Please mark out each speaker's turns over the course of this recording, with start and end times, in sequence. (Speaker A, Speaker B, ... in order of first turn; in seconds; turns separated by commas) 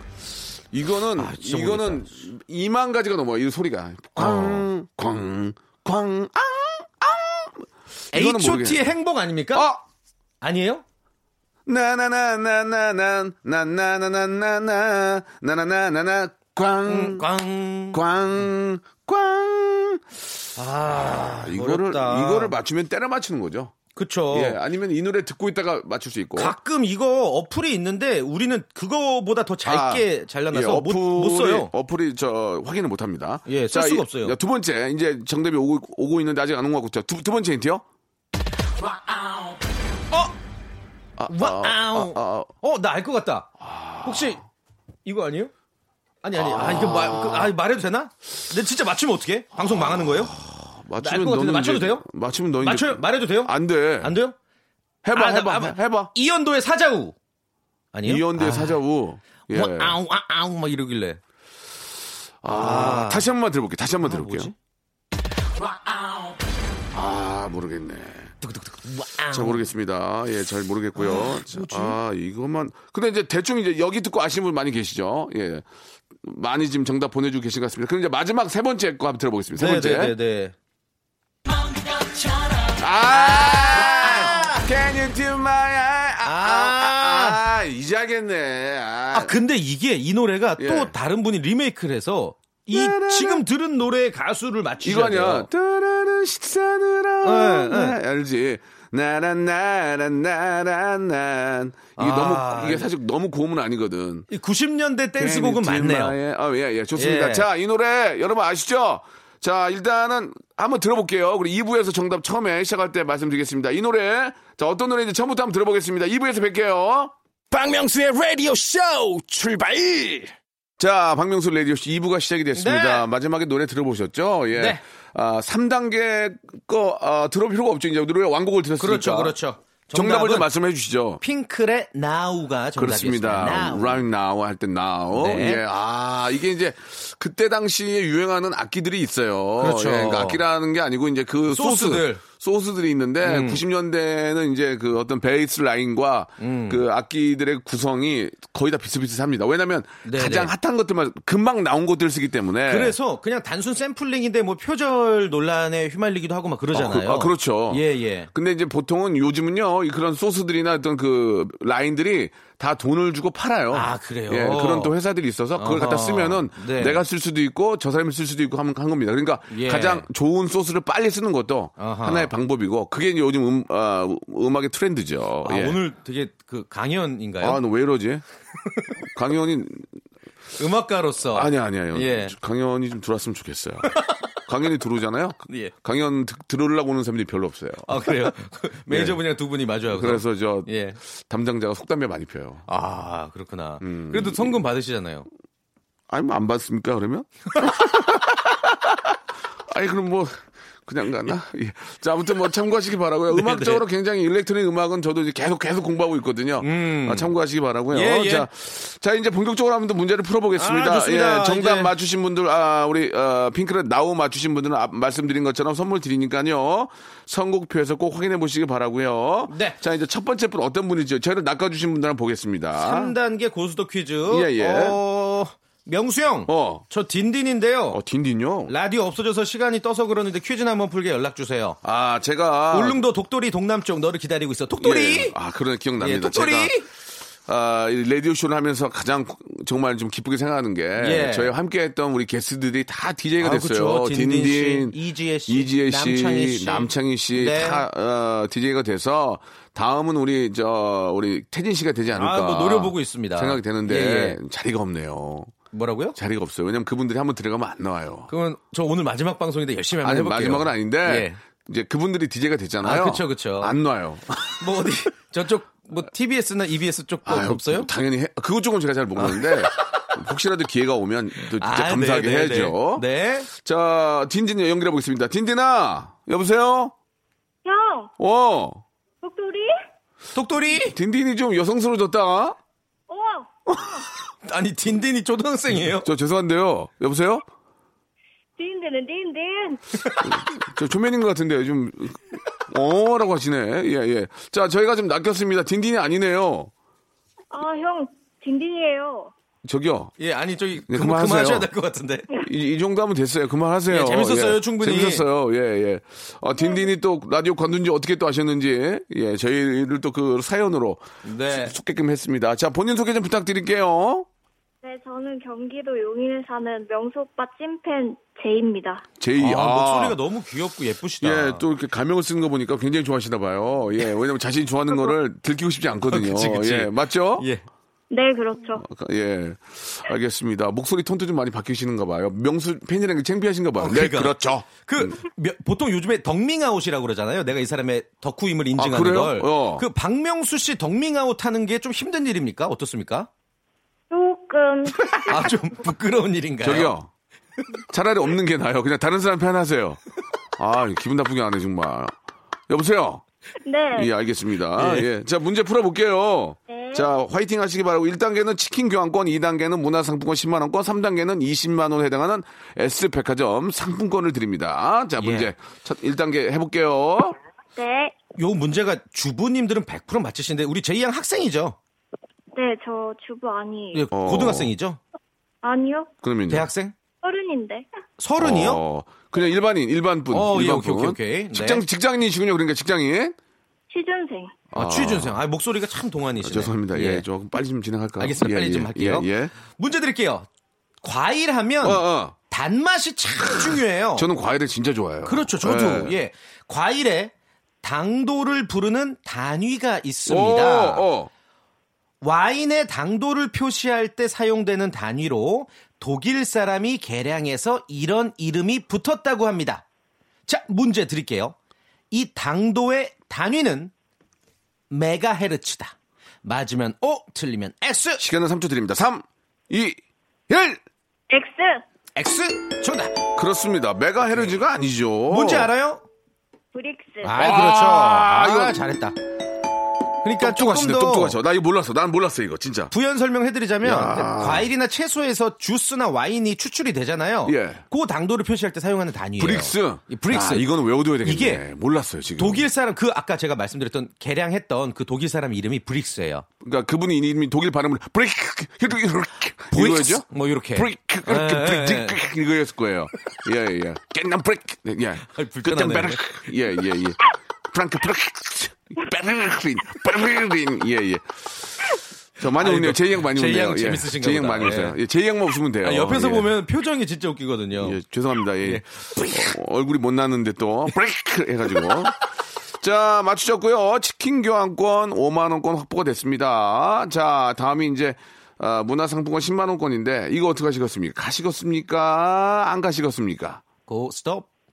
Speaker A: 0.7-8.9, Speaker B: 1.1-2.2, Speaker B: 4.2-4.7, Speaker B: 8.1-9.7, Speaker A: 9.5-9.8, Speaker B: 10.4-10.8, Speaker A: 11.7-17.3, Speaker B: 16.9-18.0, Speaker A: 17.9-20.2, Speaker B: 20.6-22.5, Speaker A: 20.9-23.8, Speaker B: 23.9-24.6, Speaker A: 24.3-26.6, Speaker B: 26.4-31.7, Speaker A: 29.6-37.8, Speaker B: 33.5-34.4, Speaker A: 41.2-42.5, Speaker B: 41.3-44.4, Speaker A: 43.6-44.4, Speaker B: 45.0-45.5, Speaker B: 46.2-50.3, Speaker A: 46.3-47.5, Speaker A: 49.6-54.1, Speaker B: 51.0-52.0, Speaker B: 52.6-54.3, Speaker A: 55.0-56.1, Speaker B: 55.1-57.1, Speaker B: 57.9-58.8, Speaker A: 58.0-60.0, Speaker B: 59.5-61.2, Speaker A: 62.4-64.5, Speaker B: 62.5-63.3, Speaker B: 64.0-64.5, Speaker A: 66.9-68.3, Speaker B: 68.4-69.7, Speaker A: 69.3-75.7, Speaker B: 71.0-72.0, Speaker A: 76.2-80.1, Speaker B: 79.5-80.5, Speaker A: 82.7-89.3, Speaker B: 83.1-84.7, Speaker B: 86.2-87.4, Speaker B: 89.1-95.5, Speaker A: 90.6-90.9, Speaker A: 92.7-93.4, Speaker A: 94.8-104.3, Speaker B: 97.2-98.0, Speaker B: 102.0-102.9, Speaker B: 104.3-106.2, Speaker A: 105.2-117.1, Speaker B: 107.0-107.5, Speaker C: 117.5-120.3, Speaker A: 120.8-129.4, Speaker B: 122.5-123.0, Speaker B: 124.5-124.8, Speaker B: 128.8-130.5, Speaker A: 129.9-131.2, Speaker B: 131.2-134.0, Speaker A: 132.8-152.9, Speaker B: 135.1-135.6, Speaker B: 139.6-140.4, Speaker B: 141.5-142.2, Speaker B: 143.2-143.6, Speaker B: 146.4-146.8, Speaker B: 150.0-150.5, Speaker B: 152.7-158.3, Speaker A: 156.7-175.8, Speaker B: 163.7-164.9, Speaker B: 165.6-167.0, Speaker B: 169.5-170.1, Speaker B: 171.8-172.3, Speaker B: 175.4-177.6, Speaker A: 177.4-178.2, Speaker A: 179.1-179.9, Speaker B: 180.6-182.3, Speaker A: 181.3-188.3, Speaker B: 185.5-185.7, Speaker B: 187.9-191.0, Speaker A: 188.9-189.2, Speaker A: 189.9-190.7, Speaker A: 191.2-192.6, Speaker B: 192.7-195.3, Speaker A: 193.8-194.6, Speaker A: 196.1-199.2, Speaker A: 199.7-223.1, Speaker B: 203.3-203.8, Speaker B: 206.6-207.3, Speaker B: 207.9-208.5, Speaker B: 210.6-211.9, Speaker B: 219.5-219.8, Speaker B: 222.8-228.0, Speaker A: 224.3-225.0, Speaker A: 226.5-226.8, Speaker A: 227.9-228.7, Speaker B: 228.7-231.8, Speaker A: 231.8-233.0, Speaker B: 232.7-235.3, Speaker A: 234.8-236.8, Speaker B: 236.0-236.9, Speaker A: 237.4-255.5, Speaker B: 241.0-241.5, Speaker B: 243.4-247.8, Speaker B: 252.1-254.4, Speaker B: 255.7-256.2, Speaker A: 256.1-258.3, Speaker B: 258.3-261.4, Speaker A: 260.0-264.6, Speaker B: 262.8-263.7, Speaker B: 264.6-267.9, Speaker A: 267.2-276.9, Speaker B: 269.2-270.1, Speaker B: 271.4-273.5, Speaker D: 277.6-278.1, Speaker A: 278.2-278.8, Speaker D: 279.2-279.7, Speaker B: 280.3-280.9, Speaker A: 280.8-282.6, Speaker D: 283.1-283.9, Speaker B: 284.4-286.1, Speaker A: 286.0-287.4, Speaker D: 288.6-289.8, Speaker A: 290.2-296.7, Speaker D: 297.5-299.3, Speaker A: 299.6-300.1, Speaker B: 300.2-302.3, Speaker A: 300.9-301.7, Speaker A: 302.4-314.3, Speaker B: 303.9-305.2, Speaker D: 306.6-306.8, Speaker B: 311.2-311.7, Speaker D: 314.8-319.0, Speaker A: 319.2-320.2, Speaker B: 319.4-321.6, Speaker A: 321.2-327.5, Speaker B: 326.1-327.6, Speaker D: 328.1-328.8, Speaker A: 328.8-335.1, Speaker B: 333.8-343.3, Speaker A: 338.8-339.8, Speaker D: 344.1-345.6, Speaker B: 345.1-346.9, Speaker A: 346.6-347.1, Speaker A: 347.9-350.0, Speaker A: 350.6-352.1, Speaker A: 352.7-353.2, Speaker D: 353.6-354.1, Speaker A: 353.9-367.4, Speaker B: 354.8-355.1, Speaker D: 356.7-357.1, Speaker B: 365.2-365.5, Speaker D: 367.8-368.1, Speaker B: 368.4-371.8, Speaker D: 372.5-374.0, Speaker B: 373.9-375.0, Speaker A: 374.1-374.7, Speaker D: 375.6-376.1, Speaker A: 376.2-376.7, Speaker B: 376.5-376.9, Speaker D: 377.2-377.9, Speaker B: 378.2-378.8, Speaker A: 378.4-383.4, Speaker B: 380.3-381.8, Speaker D: 383.9-384.5, Speaker A: 384.7-385.4, Speaker B: 384.7-387.2, Speaker A: 386.4-389.5, Speaker B: 388.2-390.5, Speaker B: 391.0-394.3, Speaker A: 391.8-392.3, Speaker A: 393.6-396.2, Speaker B: 395.2-397.3, Speaker B: 397.8-401.1, Speaker A: 400.3-401.3, Speaker B: 402.2-409.8, Speaker B: 410.5-411.6, Speaker B: 412.1-413.9, Speaker B: 414.9-418.2, Speaker A: 418.2-420.0, Speaker A: 420.5-420.8, Speaker D: 421.3-421.8, Speaker B: 422.1-423.2, Speaker A: 423.4-425.7, Speaker B: 425.3-426.0, Speaker D: 426.7-427.4, Speaker B: 427.2-429.1, Speaker A: 427.3-428.8, Speaker B: 430.2-431.4, Speaker A: 430.4-432.9, Speaker B: 432.9-440.6, Speaker A: 433.8-434.7, Speaker A: 437.4-437.8, Speaker A: 439.4-442.7, Speaker B: 441.2-441.6, Speaker B: 442.4-446.4, Speaker A: 446.6-461.9, Speaker B: 449.7-452.2, Speaker B: 455.3-456.2, Speaker A: 462.4-466.5, Speaker B: 462.6-465.0, Speaker B: 465.8-468.0, Speaker A: 467.8-472.2, Speaker B: 468.6-469.5, Speaker A: 472.8-483.6, Speaker B: 483.9-484.5